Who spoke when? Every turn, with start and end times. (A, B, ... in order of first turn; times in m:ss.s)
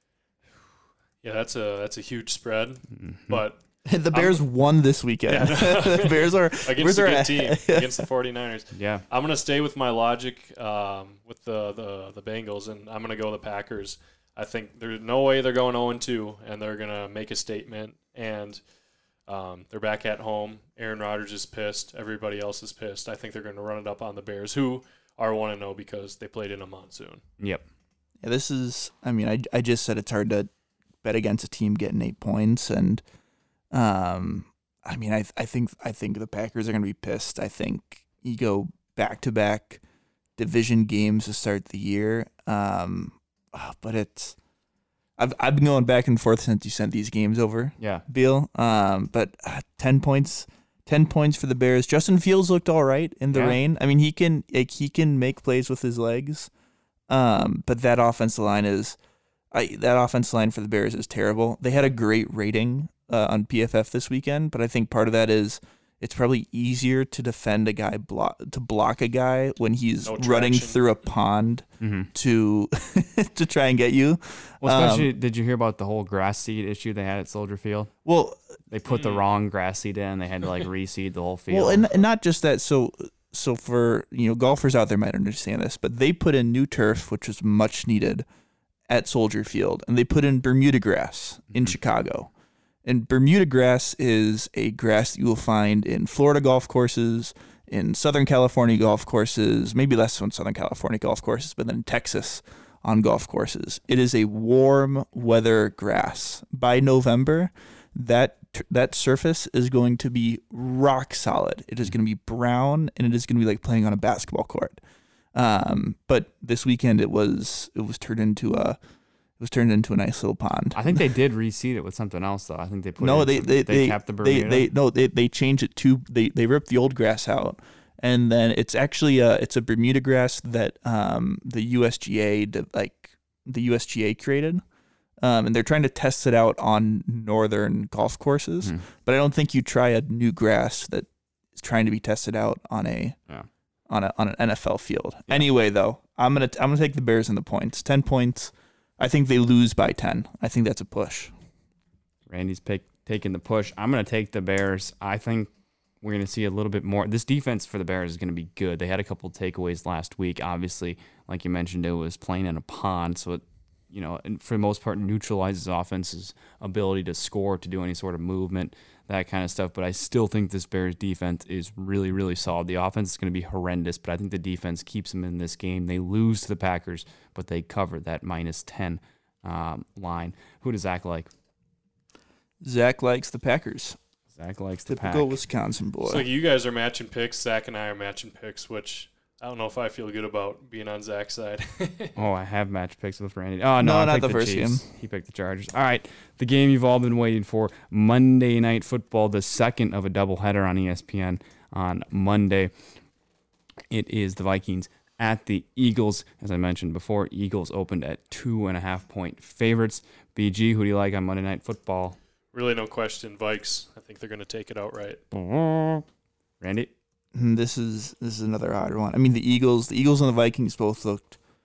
0:01.2-0:03.6 A
0:02.9-0:03.4 B
0:03.9-0:08.0 C
0:04.1-0:04.4 A
0:05.3-0:18.6 A
0:08.7-0:09.0 B
0:19.3-0:27.2 A
0:28.2-0:30.5 C
0:31.0-0:33.0 C
0:33.7-0:39.8 C
0:40.4-0:44.4 C
0:45.2-0:56.5 C
0:53.3-0:53.6 B
0:57.1-0:59.0 C
0:59.5-1:15.1 C
1:10.0-1:10.8 A
1:11.8-1:12.1 B
1:14.6-1:17.9 B
1:18.0-1:18.4 C
1:18.7-1:21.9 B
1:18.9-1:19.2 A
1:21.5-1:28.2 C
1:28.9-1:32.3 C
1:32.8-1:54.8 C
1:55.3-1:58.8 C
1:59.4-2:01.0 C
2:00.7-2:04.7 B
2:03.0-2:14.6 C
2:15.2-2:23.2 C
2:23.9-2:31.3 C
2:32.3-2:35.5 B
2:36.0-3:01.3 B
3:02.6-3:04.0 C
3:04.3-3:05.3 B
3:04.9-3:06.3 C
3:06.0-3:12.1 A
3:12.2-3:22.7 B
3:13.8-3:14.9 C
3:23.9-3:32.2 B
3:32.5-3:35.2 A
3:35.3-3:36.0 B
3:36.6-3:36.9 B
3:37.4-3:41.4 C